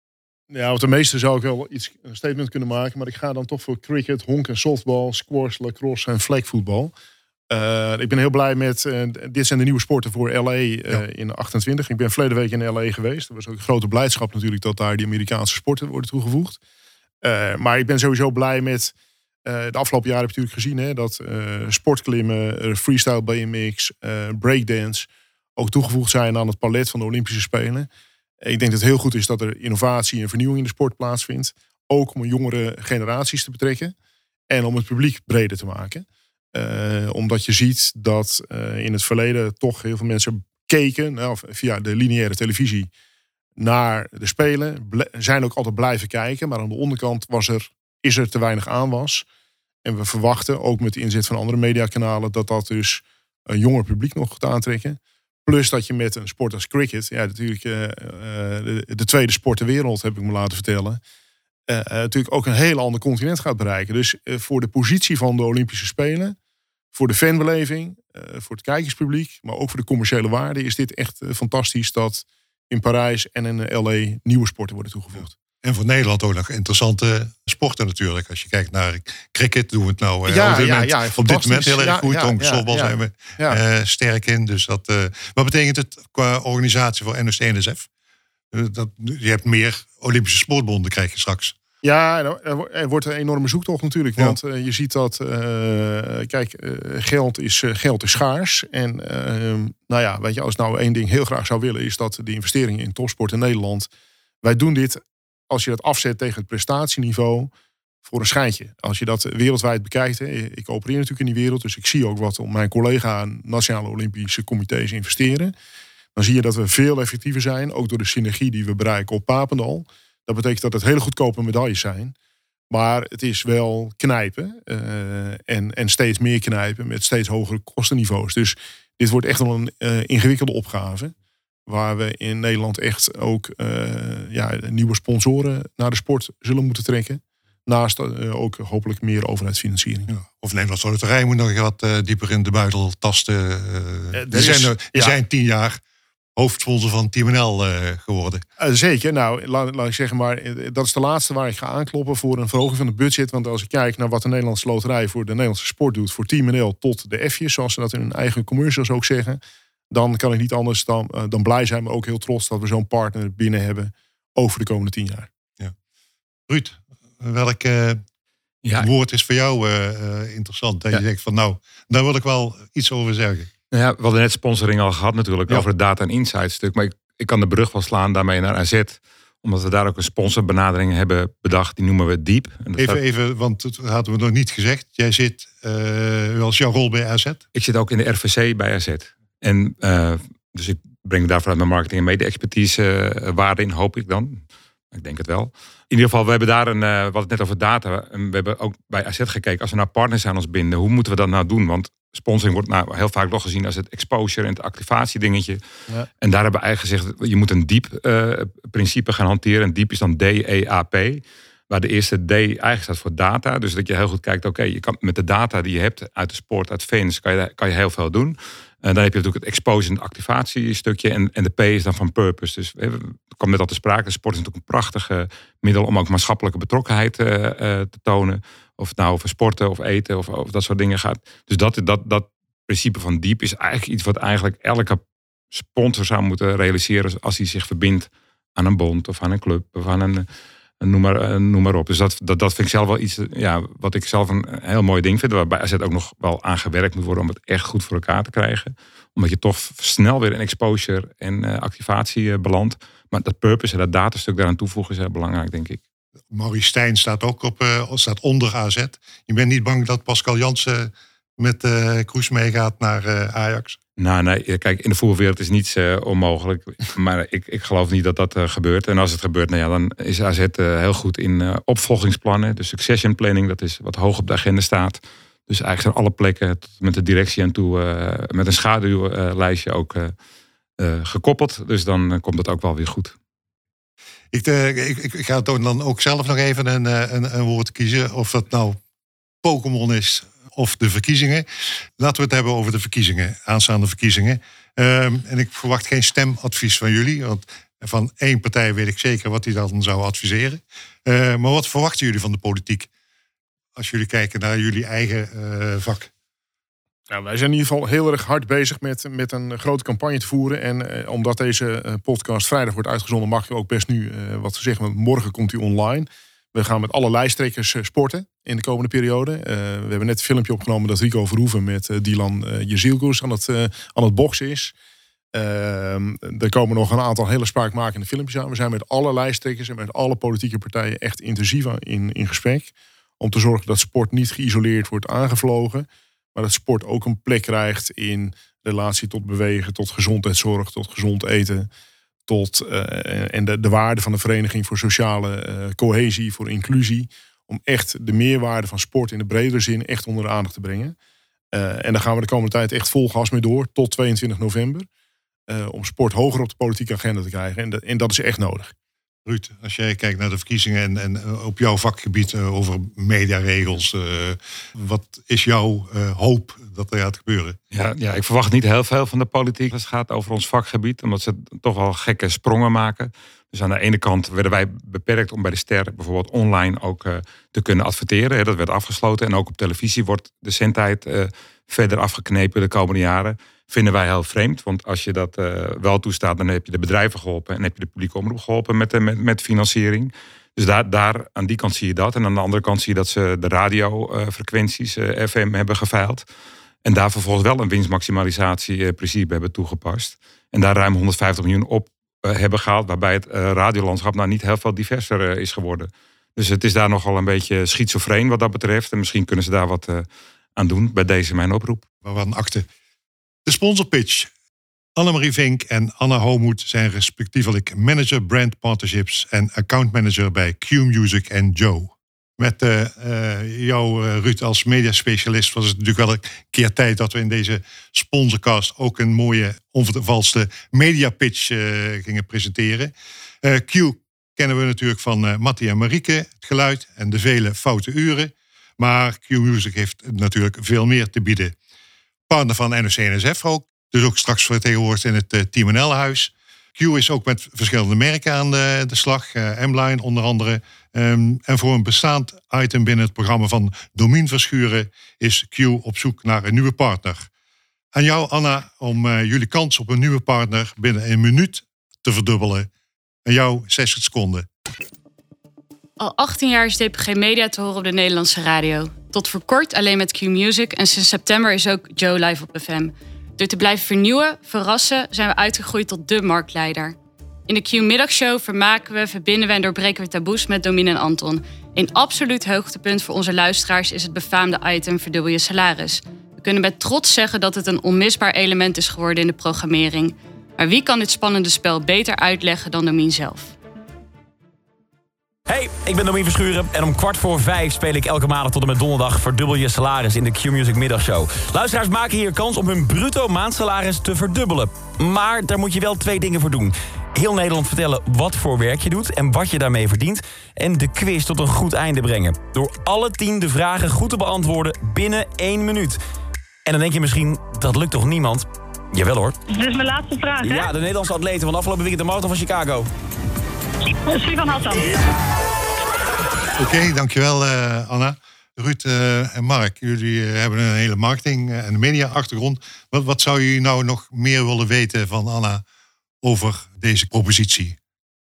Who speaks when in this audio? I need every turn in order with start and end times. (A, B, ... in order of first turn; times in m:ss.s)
0:00.5-0:06.9 A
0:07.5-0:16.6 A
0:17.2-0:18.9 A
0:19.4-0:27.9 A
0:28.4-0:33.9 A
0:34.5-0:42.9 A
0:43.6-0:49.2 A
0:49.8-1:01.0 A
1:01.7-1:06.4 A
1:06.9-1:15.4 A
1:15.6-1:27.9 B
1:20.3-1:23.6 A
1:28.5-1:31.5 B
1:31.8-1:43.9 A
1:44.4-1:47.5 A
1:48.0-1:55.5 A
1:56.2-2:02.1 A
2:02.7-2:11.1 A
2:11.7-2:20.1 A
2:20.1-2:25.8 B
2:24.1-2:25.2 A
2:26.4-2:28.4 B
2:28.6-2:39.4 A
2:39.9-2:45.3 A
2:46.5-2:48.0 B
2:48.6-2:48.9 C
2:48.7-2:53.5 B
2:53.7-3:03.0 C
3:02.8-3:07.4 B
3:07.5-3:25.6 C
3:26.2-3:55.0 C
3:55.5-4:00.2 C
4:00.8-4:15.8 C
4:16.3-4:23.8 B
4:24.0-4:40.1 C
4:40.8-4:43.1 C
4:44.3-4:48.8 B
4:49.4-4:51.4 B
4:52.0-5:02.9 B
5:03.8-5:06.1 B
5:07.1-5:24.7 A
5:25.3-5:41.7 A
5:42.3-5:51.0 A
5:51.5-5:54.8 A
5:55.5-5:58.7 A
5:59.2-6:07.6 B
6:07.7-6:36.2 C
6:36.8-6:51.8 C
6:52.0-6:52.7 B
6:53.4-6:54.3 B
6:55.0-7:21.6 B
7:22.3-7:37.3 B
7:37.9-7:42.7 B
7:43.2-7:44.5 B
7:46.0-7:57.0 D
7:57.5-8:13.5 D
8:15.5-8:36.0 E
8:36.6-8:39.4 E
8:39.5-8:40.7 F
8:40.4-8:42.8 E
8:44.0-8:45.0 F
8:46.6-8:55.6 B
8:56.2-8:57.8 B